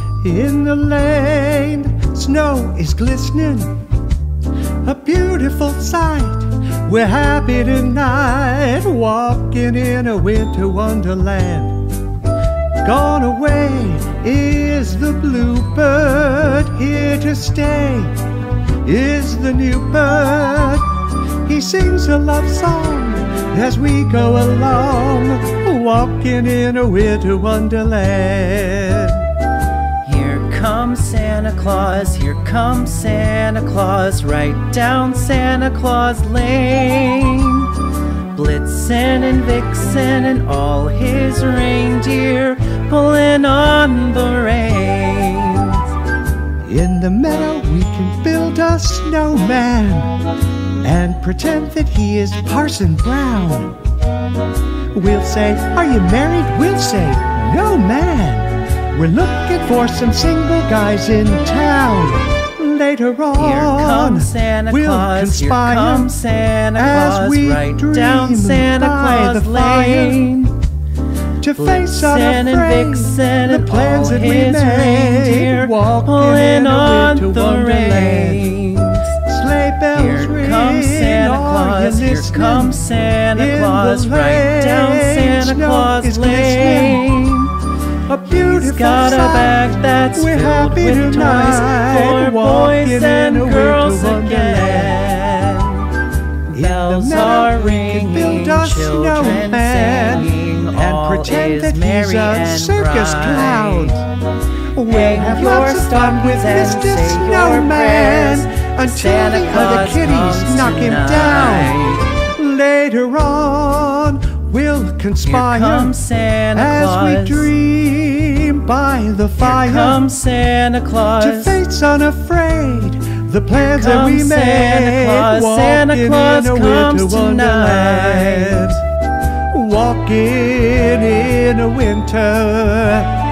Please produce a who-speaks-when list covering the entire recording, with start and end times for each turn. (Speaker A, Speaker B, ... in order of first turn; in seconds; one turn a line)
Speaker A: 0.2-3.8
Speaker A: 4.8-11.8
Speaker A: 12.8-18.1
Speaker A: 18.8-20.9
Speaker A: 21.4-29.3
Speaker B: 30.0-45.9
Speaker A: 46.6-50.2
Speaker A: 50.8-53.8
Speaker A: 54.9-66.1
Speaker B: 63.4-70.6
Speaker A: 66.8-70.2
Speaker A: 71.4-78.5
Speaker B: 71.6-79.1
Speaker A: 79.2-82.8
Speaker B: 79.9-87.7
Speaker A: 83.3-87.1
Speaker A: 88.1-95.0
Speaker B: 88.3-96.0
Speaker B: 96.5-104.0
Speaker A: 96.5-104.1
Speaker A: 104.7-116.0
Speaker B: 104.9-112.2
Speaker B: 115.2-117.5
Speaker A: 116.5-120.0
Speaker B: 119.4-121.6
Speaker A: 121.2-128.8
Speaker B: 123.6-128.8
Speaker A: 129.5-133.2